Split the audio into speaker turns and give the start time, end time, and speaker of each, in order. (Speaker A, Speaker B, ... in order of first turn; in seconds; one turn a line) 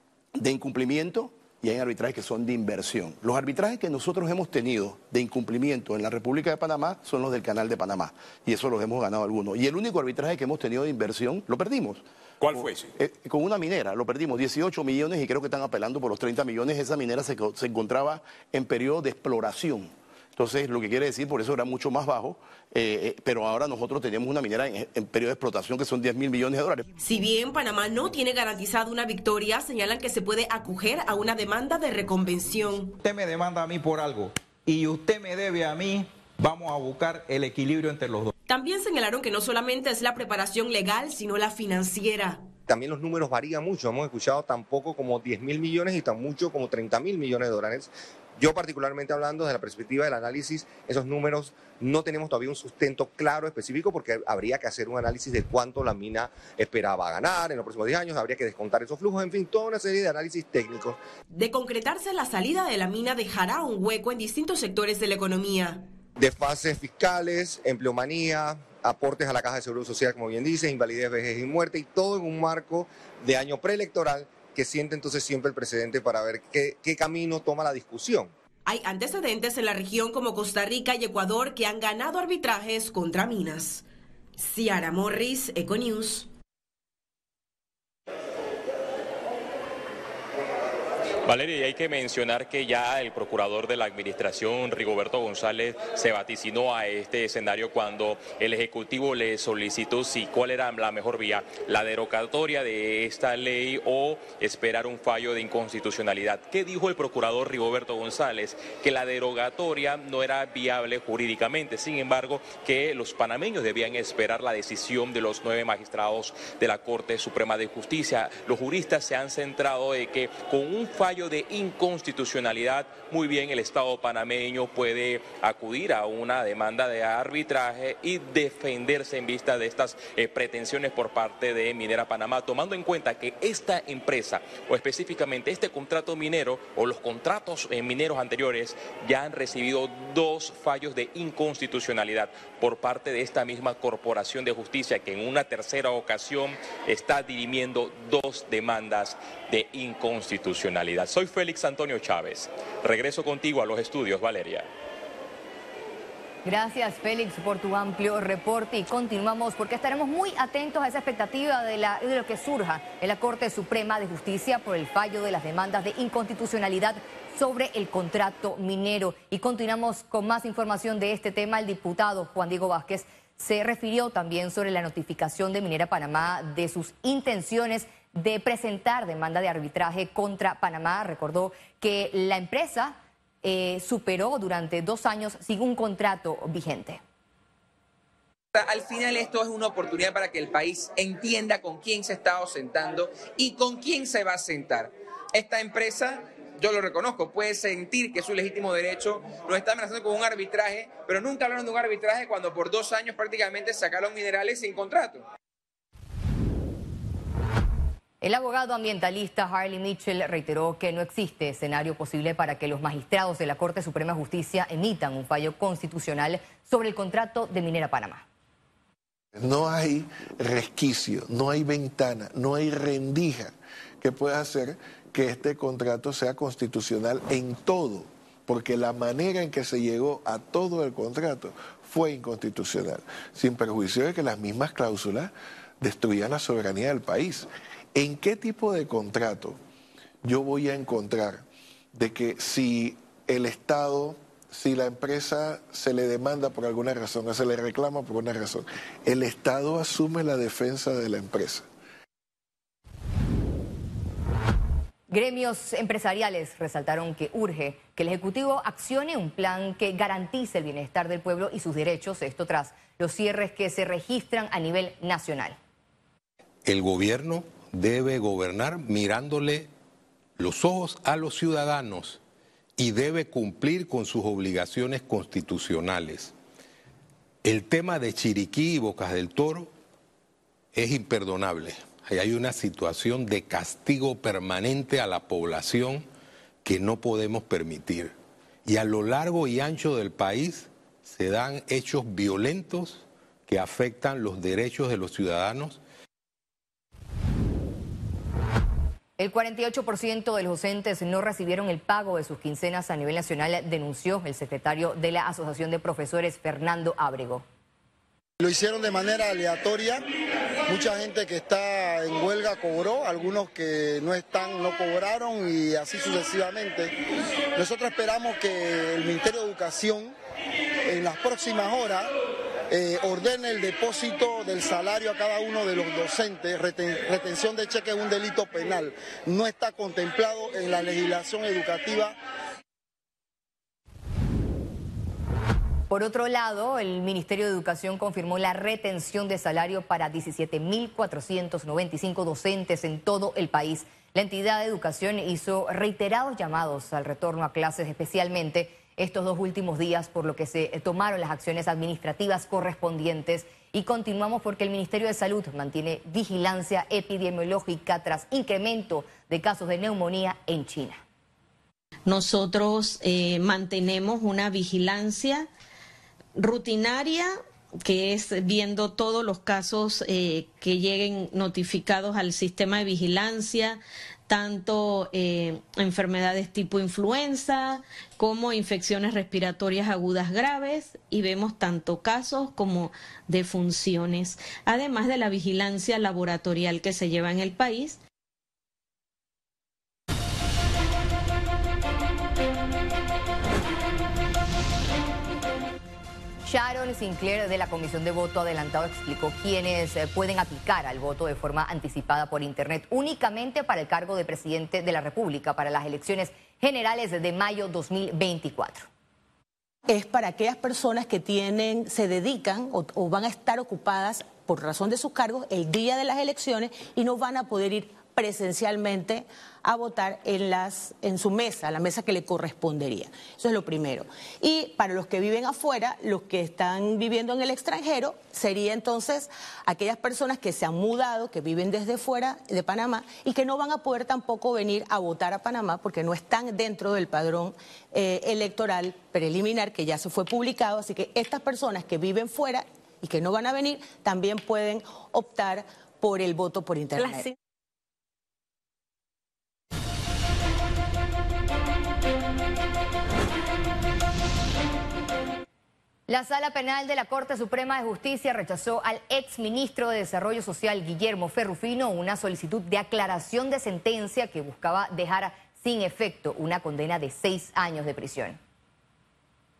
Speaker A: 0.4-26.9
Speaker B: 27.0-33.0
Speaker C: 33.0-38.3
Speaker B: 38.5-42.4
Speaker D: 42.7-61.0
Speaker B: 61.3-65.8
Speaker D: 66.2-78.3
Speaker B: 78.7-83.8
Speaker B: 84.4-86.3
Speaker E: 91.2-154.7
Speaker F: 156.4-187.0
Speaker G: 188.5-205.2
Speaker F: 208.2-218.2
Speaker H: 219.3-239.6
Speaker H: 240.2-251.6
Speaker F: 255.1-265.6
Speaker I: 266.6-269.7
Speaker I: 270.4-272.2
Speaker I: 272.8-276.3
Speaker I: 277.4-279.7
Speaker I: 280.7-286.1
Speaker I: 286.6-295.8
Speaker F: 299.2-307.4
Speaker J: 308.4-310.0
Speaker J: 310.7-316.9
Speaker J: 317.6-320.1
Speaker J: 320.9-322.1
Speaker J: 322.7-332.1
Speaker F: 335.9-361.0
Speaker K: 362.1-365.5
Speaker K: 366.4-388.0
Speaker F: 396.4-408.9
Speaker L: 409.9-447.3
Speaker F: 456.1-468.4